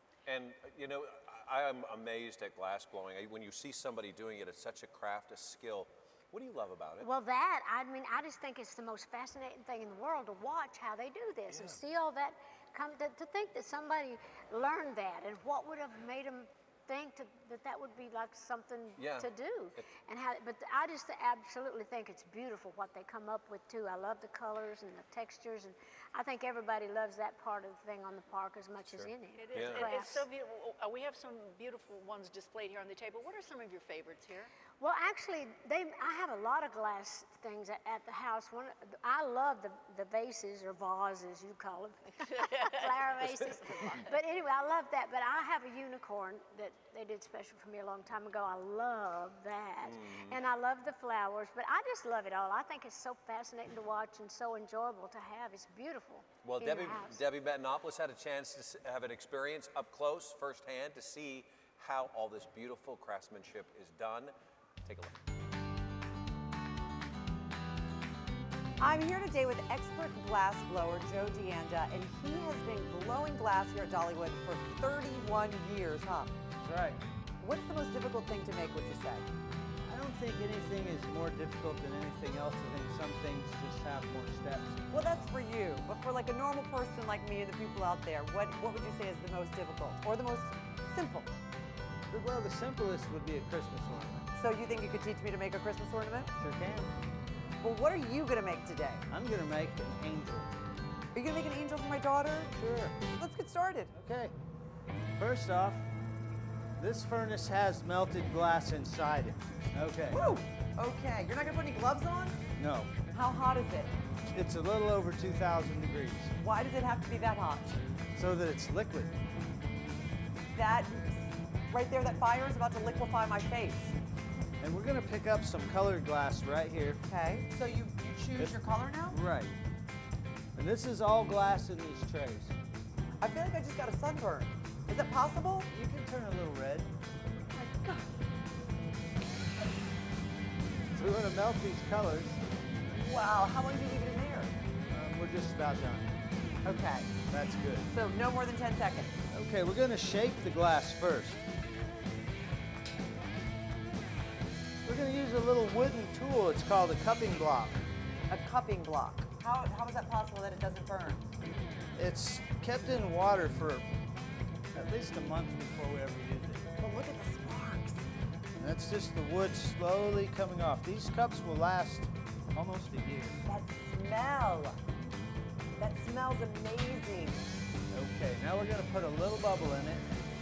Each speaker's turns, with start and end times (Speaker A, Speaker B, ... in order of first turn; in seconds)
Speaker A: 0.2-7.1, 11.5-11.8, 19.0-19.8, 28.9-29.9, 49.8-50.4, 56.4-64.3, 64.8-65.2
Speaker B: 7.0-30.2, 34.8-57.2
Speaker C: 29.3-34.5, 42.4-44.0
Speaker D: 68.8-76.3, 77.4-79.3, 84.9-91.3, 94.4-96.3, 97.6-99.0, 101.1-102.5, 103.1-103.9, 110.1-112.4, 113.1-113.9, 116.3-117.8, 120.5-124.0, 127.0-129.2, 133.2-135.7, 137.5-138.0, 142.9-144.6, 146.7-147.2, 147.8-149.2, 158.3-161.3, 166.8-168.1, 173.5-174.8, 175.8-177.4
Speaker E: 76.6-77.0, 79.9-85.4, 92.1-94.3, 96.4-96.9, 99.1-100.5, 102.5-103.0, 103.9-104.3, 105.2-105.9, 106.8-110.2, 112.6-112.9, 114.3-116.3, 118.2-119.2, 124.6-127.0, 128.4-129.6, 130.6-132.6, 135.7-136.9, 140.9-142.4, 144.9-146.1, 147.3-147.9, 149.3-151.4, 154.8-157.8, 162.0-163.8, 164.7-166.7, 168.6-173.4, 177.9-180.1